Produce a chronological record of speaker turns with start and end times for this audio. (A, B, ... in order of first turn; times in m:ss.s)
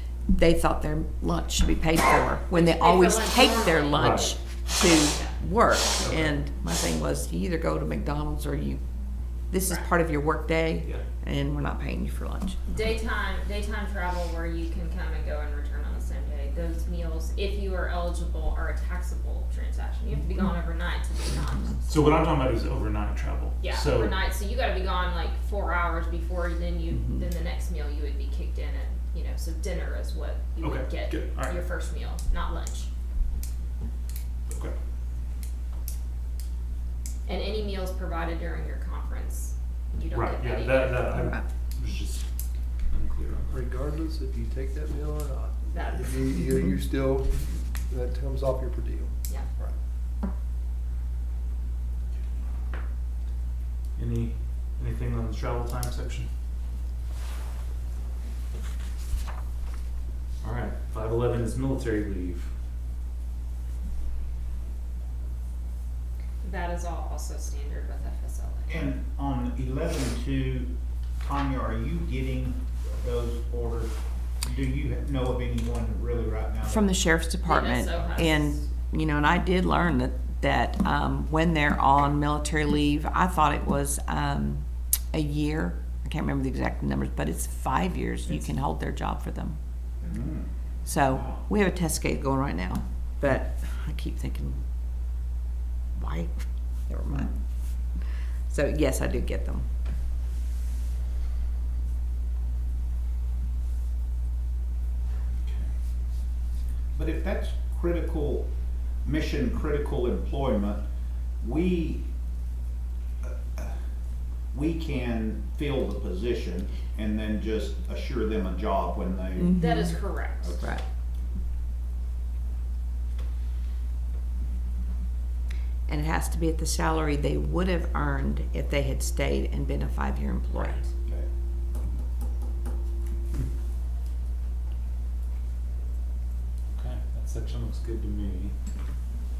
0:00.3-0:08.8 A
0:02.5-0:05.4 B
0:03.9-0:04.4 C
0:06.0-0:06.4 C
0:09.5-0:12.6 A
0:09.6-0:09.9 B
0:12.7-0:22.0 B
0:21.8-0:24.2 C
0:23.6-0:32.9 B
0:30.6-0:31.6 C
0:34.5-0:34.8 C
0:37.2-0:41.1 B
0:40.1-0:42.3 C
0:42.9-0:43.7 C
0:43.5-0:49.8 D
0:45.7-0:46.5 B
0:54.0-0:56.3 C
1:00.4-1:02.5 C
1:06.4-1:08.9 B
1:08.7-1:16.8 E
1:16.6-1:29.6 A
1:17.4-1:18.7 B
1:30.1-1:31.5 E
1:30.8-1:34.6 A
1:35.9-1:37.4 A
1:37.1-1:37.4 E
1:38.5-1:39.7 A
1:45.4-1:45.8 E
1:46.9-1:48.5 E
1:49.0-1:50.8 E
1:51.4-1:52.0 E
1:53.2-1:53.7 E
1:54.5-2:00.7 E
1:59.4-1:59.9 A
1:59.6-2:00.6 B
2:00.6-2:00.8 A
2:05.9-2:10.8 A
2:10.5-2:10.9 B
2:16.7-2:18.5 C